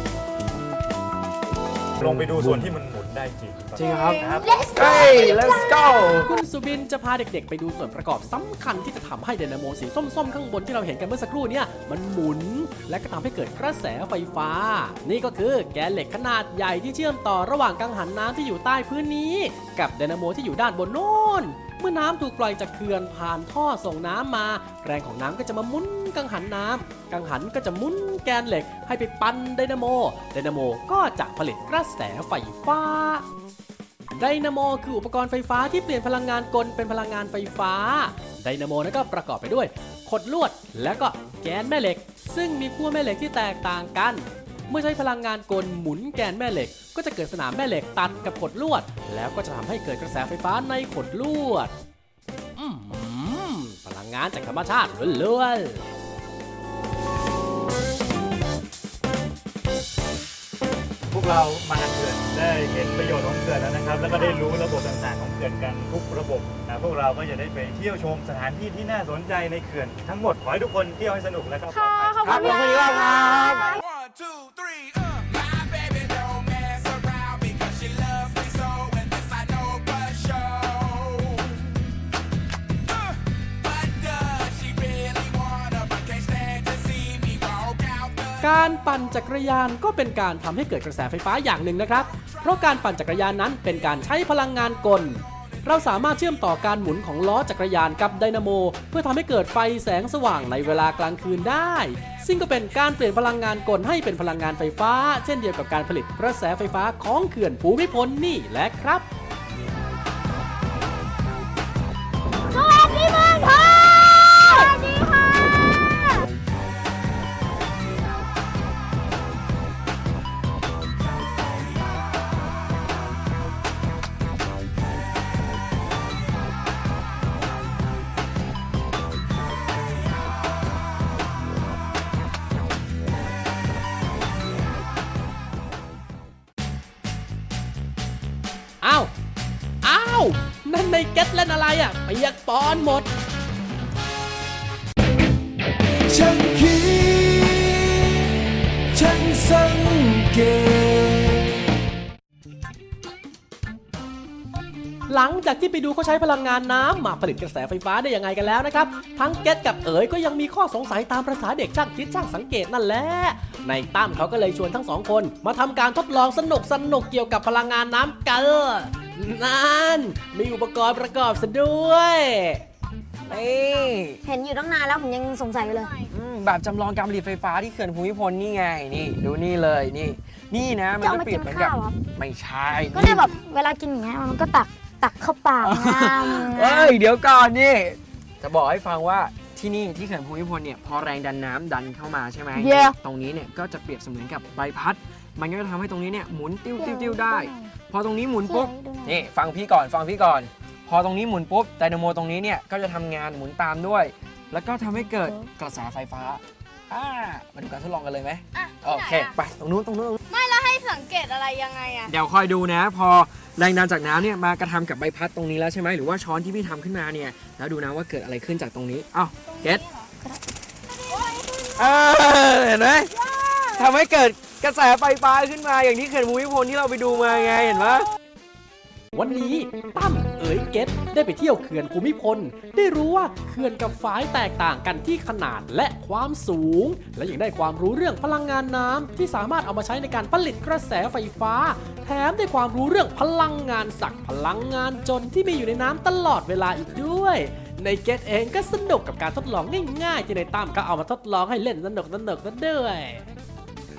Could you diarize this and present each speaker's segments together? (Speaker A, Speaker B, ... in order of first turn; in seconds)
Speaker A: 2.0-4.8, 61.1-73.5
Speaker B: 2.0-2.7, 3.8-6.3, 72.3-73.5, 173.2-174.2, 176.1-183.3, 185.6-210.2, 212.1-219.8, 221.8-228.1
Speaker C: 3.9-6.2, 112.5-115.7, 174.2-176.0, 181.0-181.9, 182.9-187.0, 192.6-192.9, 196.8-197.7, 198.4-199.2, 205.1-205.3
Speaker D: 6.2-33.3, 34.1-51.7, 52.6-55.9, 88.4-109.1, 138.8-139.1, 139.8-143.1, 155.1-172.6, 229.1-253.3
Speaker E: 64.1-64.5, 71.7-73.8, 208.8-209.3, 210.3-212.1
Speaker F: 146.1-148.4, 148.9-151.6